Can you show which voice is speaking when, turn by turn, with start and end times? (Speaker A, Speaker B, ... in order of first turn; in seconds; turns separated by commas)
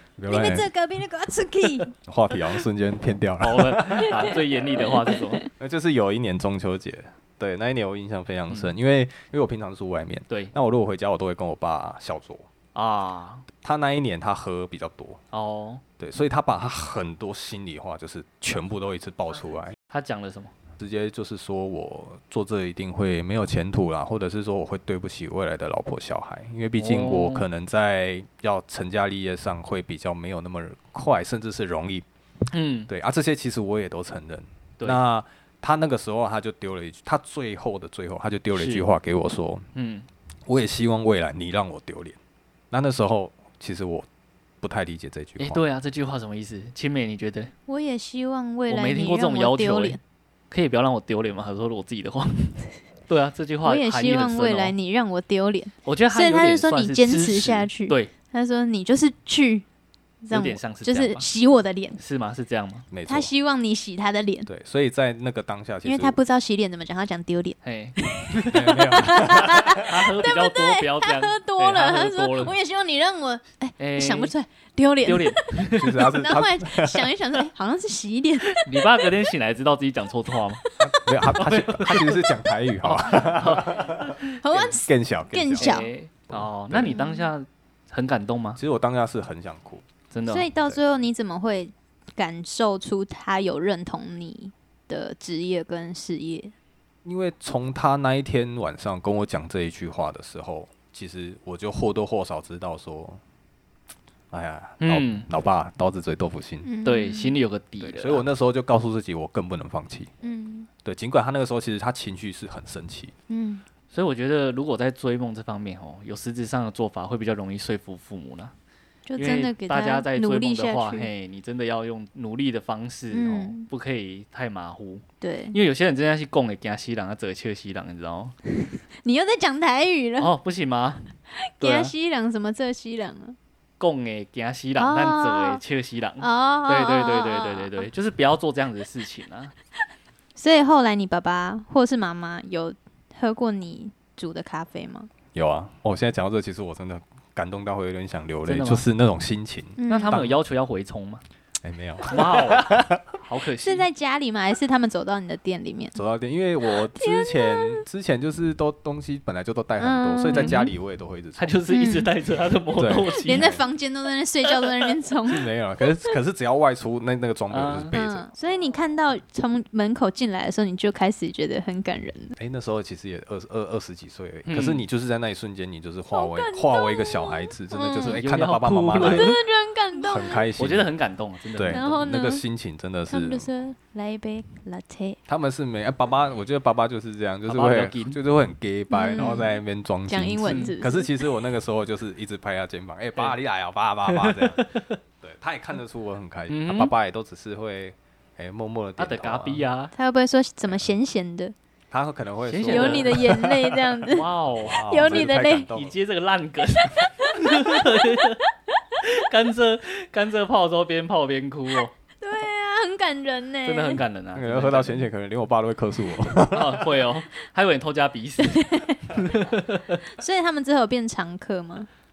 Speaker A: 0.2-0.7, Speaker B: 0.3-1.9, Speaker A: 2.0-4.3, Speaker C: 3.4-5.4, Speaker B: 4.7-5.5, Speaker A: 5.5-12.5, Speaker C: 12.7-13.5, Speaker A: 13.6-15.2, Speaker C: 15.3-15.8, Speaker A: 16.0-19.8, Speaker C: 19.9-20.5, Speaker A: 20.8-32.1, Speaker C: 26.8-27.4, Speaker C: 32.5-32.9, Speaker A: 32.9-39.7, Speaker C: 38.5-38.9, Speaker C: 39.8-40.1, Speaker A: 40.5-42.2, Speaker A: 42.7-44.1, Speaker A: 44.6-45.6, Speaker C: 45.4-47.5, Speaker B: 47.7-50.0, Speaker C: 48.7-50.0, Speaker C: 50.5-54.8, Speaker B: 53.6-59.6, Speaker C: 55.9-58.1, Speaker B: 60.2-62.0, Speaker C: 60.3-61.3, Speaker C: 62.0-62.9, Speaker A: 62.9-63.3, Speaker B: 63.1-64.5, Speaker A: 64.5-66.2, Speaker B: 65.8-78.7, Speaker C: 67.6-72.6, Speaker A: 68.5-69.9, Speaker C: 73.8-74.3, Speaker C: 75.0-76.0, Speaker A: 75.8-77.1, Speaker C: 78.6-80.6, Speaker A: 80.8-84.2, Speaker C: 81.3-82.2, Speaker C: 82.8-84.7, Speaker B: 84.4-85.9, Speaker A: 84.7-85.7, Speaker C: 85.6-88.6, Speaker A: 86.3-87.0, Speaker B: 86.9-87.3, Speaker A: 88.6-89.9, Speaker C: 90.1-90.5, Speaker B: 90.3-96.5, Speaker A: 97.0-103.2, Speaker A: 104.3-106.7, Speaker C: 104.8-105.3, Speaker B: 106.6-107.4, Speaker C: 106.8-108.2, Speaker A: 107.8-110.1, Speaker B: 110.2-110.7, Speaker A: 110.8-113.1, Speaker B: 113.3-113.6, Speaker C: 113.9-118.5, Speaker B: 119.1-121.1, Speaker C: 119.2-128.4, Speaker B: 123.1-123.7, Speaker B: 125.2-125.6, Speaker B: 129.0-130.3, Speaker C: 130.2-131.0, Speaker B: 131.3-133.4, Speaker C: 131.6-131.9, Speaker C: 133.8-139.5, Speaker B: 134.8-135.6, Speaker B: 136.2-137.9, Speaker B: 140.4-145.1, Speaker A: 145.3-150.4, Speaker C: 148.5-148.9, Speaker B: 149.8-150.2, Speaker C: 149.9-151.2, Speaker A: 151.6-153.2, Speaker C: 152.1-153.9, Speaker B: 153.6-156.0, Speaker A: 155.9-161.6, Speaker B: 156.7-157.8, Speaker B: 159.8-160.7, Speaker C: 160.3-160.7, Speaker C: 161.4-163.5, Speaker B: 161.7-162.1, Speaker A: 162.8-163.7, Speaker B: 163.1-165.5, Speaker A: 165.3-168.3, Speaker C: 167.5-167.9, Speaker B: 167.9-172.3, Speaker A: 172.4-179.4, Speaker C: 174.5-174.9, Speaker B: 176.1-178.2, Speaker C: 178.1-179.4, Speaker B: 179.0-180.4, Speaker A: 180.0-180.9, Speaker C: 180.6-181.9, Speaker A: 181.6-183.5, Speaker B: 181.7-182.4, Speaker B: 183.1-185.2, Speaker A: 185.3-194.7, Speaker C: 187.5-188.2, Speaker B: 188.9-189.5, Speaker C: 189.2-189.5, Speaker B: 190.1-191.1, Speaker C: 190.4-190.8, Speaker C: 194.1-195.0, Speaker A: 195.2-199.7, Speaker C: 196.5-196.9, Speaker C: 199.0-199.9, Speaker B: 199.9-201.6, Speaker A: 201.9-203.3, Speaker C: 202.5-208.4, Speaker B: 202.7-204.3, Speaker A: 204.6-206.0, Speaker B: 204.8-205.7, Speaker B: 207.0-208.3, Speaker C: 209.0-211.9, Speaker B: 212.2-214.0, Speaker C: 213.7-215.1, Speaker A: 214.3-217.1, Speaker C: 216.5-218.7, Speaker B: 218.4-219.3, Speaker C: 219.2-220.0, Speaker B: 220.1-221.9